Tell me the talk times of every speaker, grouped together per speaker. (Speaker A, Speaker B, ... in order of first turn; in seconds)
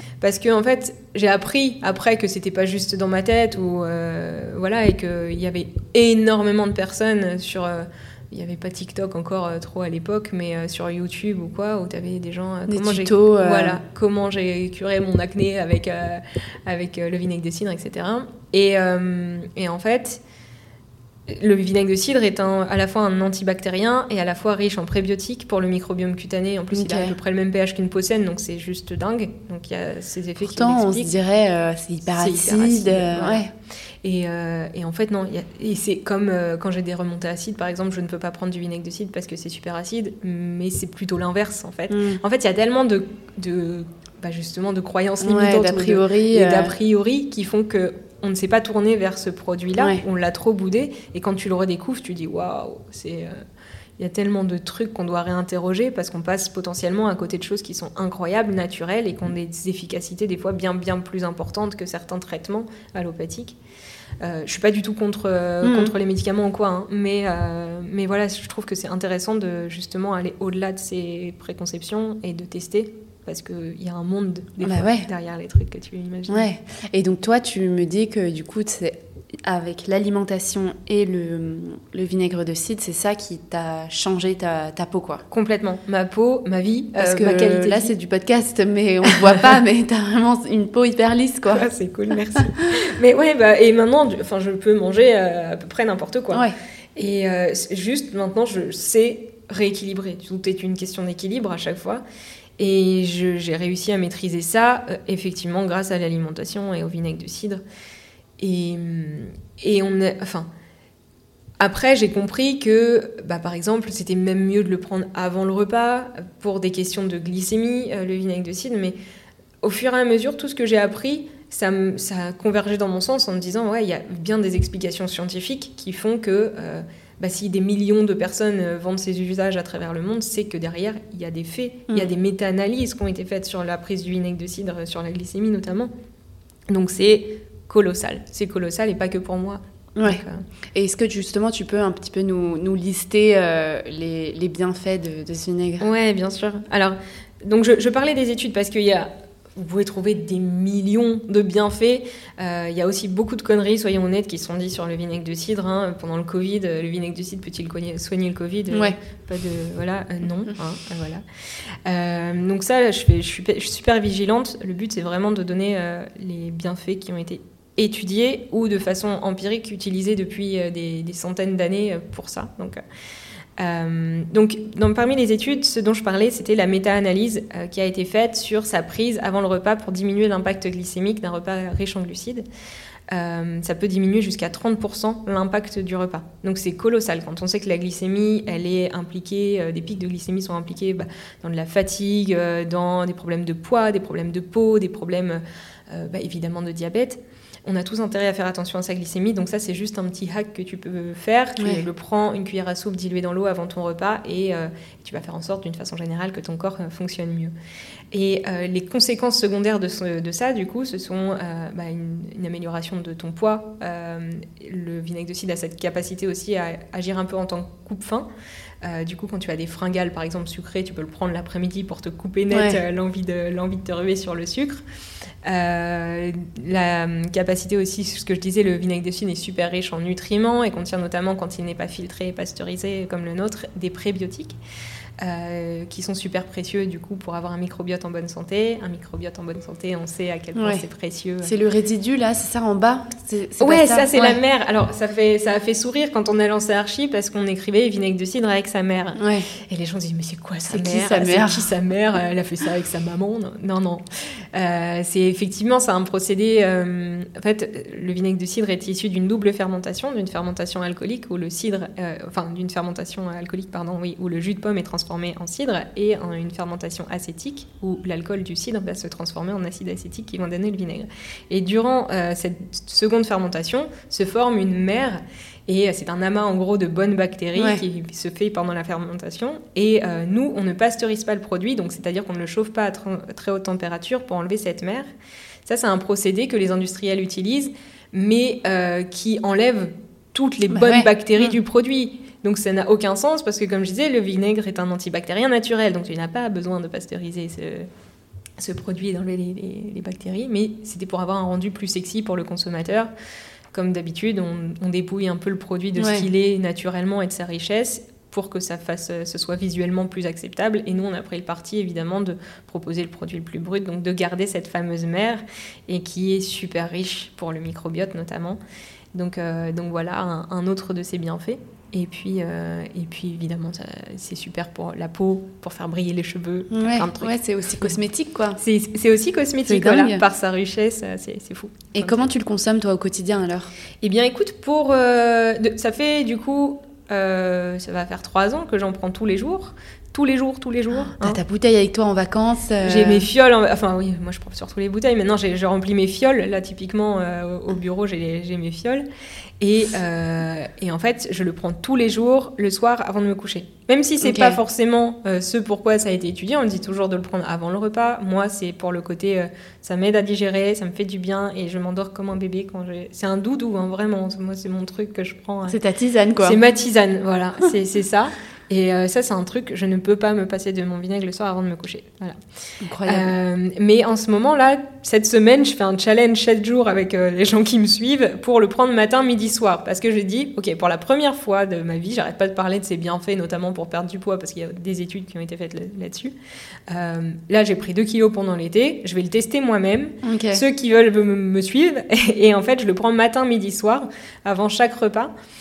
Speaker A: 0.2-20.2, 21.3-31.1, 32.1-33.5, 34.0-53.4, 54.0-63.6, 64.2-76.5, 85.3-87.9, 91.5-102.0, 102.6-107.6, 108.4-110.5, 111.6-119.0, 119.6-135.9, 136.7-140.4, 145.8-161.2, 161.9-172.8, 173.6-182.4, 183.1-207.5, 208.1-218.3, 218.8-224.8, 225.4-234.6, 235.2-241.5, 243.6-254.0, 254.5-285.1, 285.7-297.9, 298.6-303.1, 303.7-318.6, 319.1-327.9, 328.6-332.2, 334.0-341.4, 342.8-349.1, 349.6-365.8, 366.4-372.4, 373.1-386.3, 386.9-395.3
Speaker B: 12.7-13.8, 26.7-27.1, 30.4-33.5, 41.9-42.2, 45.2-46.8, 65.6-65.9, 74.6-75.1, 76.3-85.2, 87.0-91.7, 140.0-145.9, 201.6-201.8, 222.5-222.8, 240.6-240.8, 241.4-244.4, 249.2-249.5, 250.7-251.7, 277.6-277.8, 290.7-291.6, 306.0-306.2, 326.7-328.6, 329.7-330.2, 331.9-333.7, 341.0-343.3, 354.2-354.6, 365.7-366.6, 372.8-373.3, 390.2-390.6